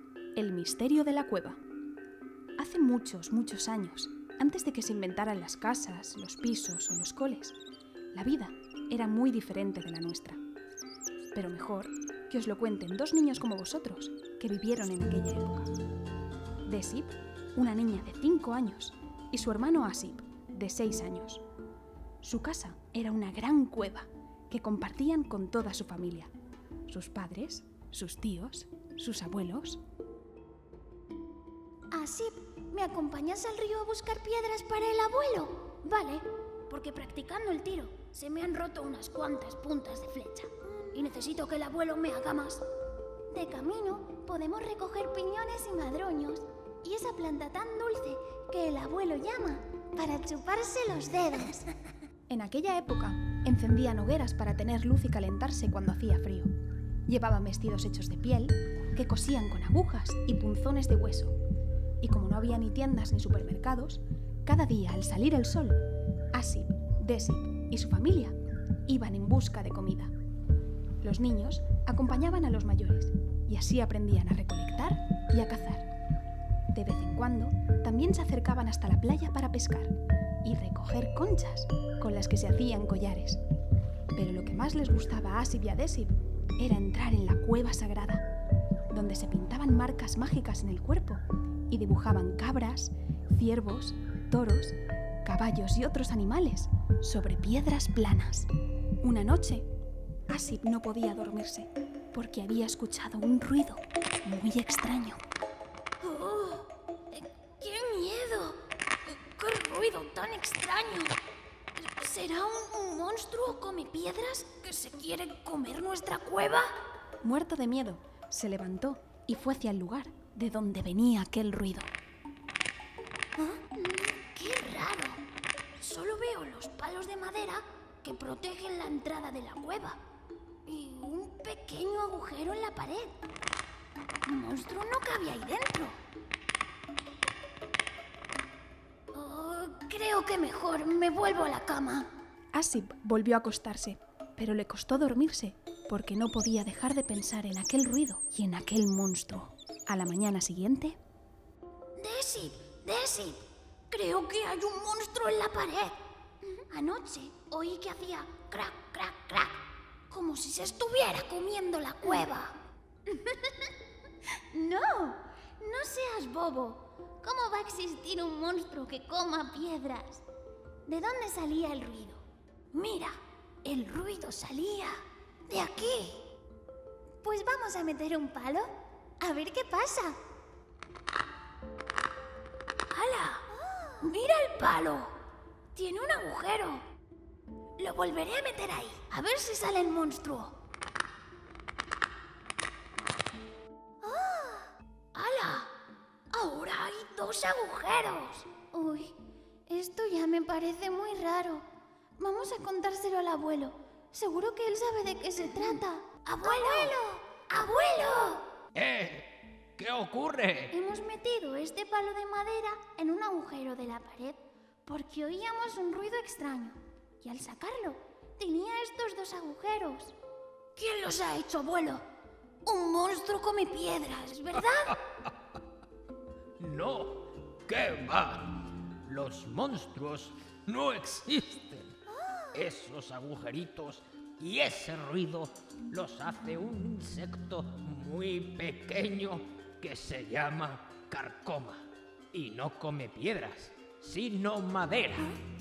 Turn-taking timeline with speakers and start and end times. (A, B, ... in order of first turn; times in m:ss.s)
0:00.4-0:01.6 A
0:02.6-0:07.6 A
0:08.1-0:10.4 A
0:11.3-0:15.7 A
0:16.7-0:21.4 A
0:22.2-0:26.3 A
0:26.9-0:29.8 A
0:31.9-0:42.6 B
0:43.3-0:51.7 B
0:52.3-0:56.5 A
0:57.1-1:01.4 A
1:02.0-1:05.8 A
1:06.3-1:10.1 A
1:11.0-1:15.9 A
1:16.7-1:23.4 A
1:24.2-1:28.2 A
1:28.9-1:38.5 A
1:39.0-1:39.7 A
1:40.3-1:45.2 A
1:46.0-1:51.2 B
1:51.8-1:56.7 B
1:57.2-2:01.9 A
2:03.4-2:05.2 B
2:05.8-2:10.0 B
2:10.7-2:13.2 B
2:14.2-2:16.0 B
2:19.1-2:22.1 B
2:22.5-2:31.0 A
2:32.0-2:43.7 B
2:44.3-2:50.2 B
2:50.9-2:56.2 B
2:57.2-3:00.2 B
3:02.9-3:05.2 B
3:05.7-3:06.9 B
3:07.8-3:10.6 B
3:14.0-3:15.7 B
3:16.3-3:19.1 B
3:19.7-3:21.7 B
3:22.2-3:28.5 B
3:28.7-3:30.7 C
3:30.7-3:40.2 B
3:40.8-3:42.0 B
3:42.6-3:45.0 B
3:46.6-3:52.0 C
3:52.2-3:52.5 B
3:52.5-4:05.4 C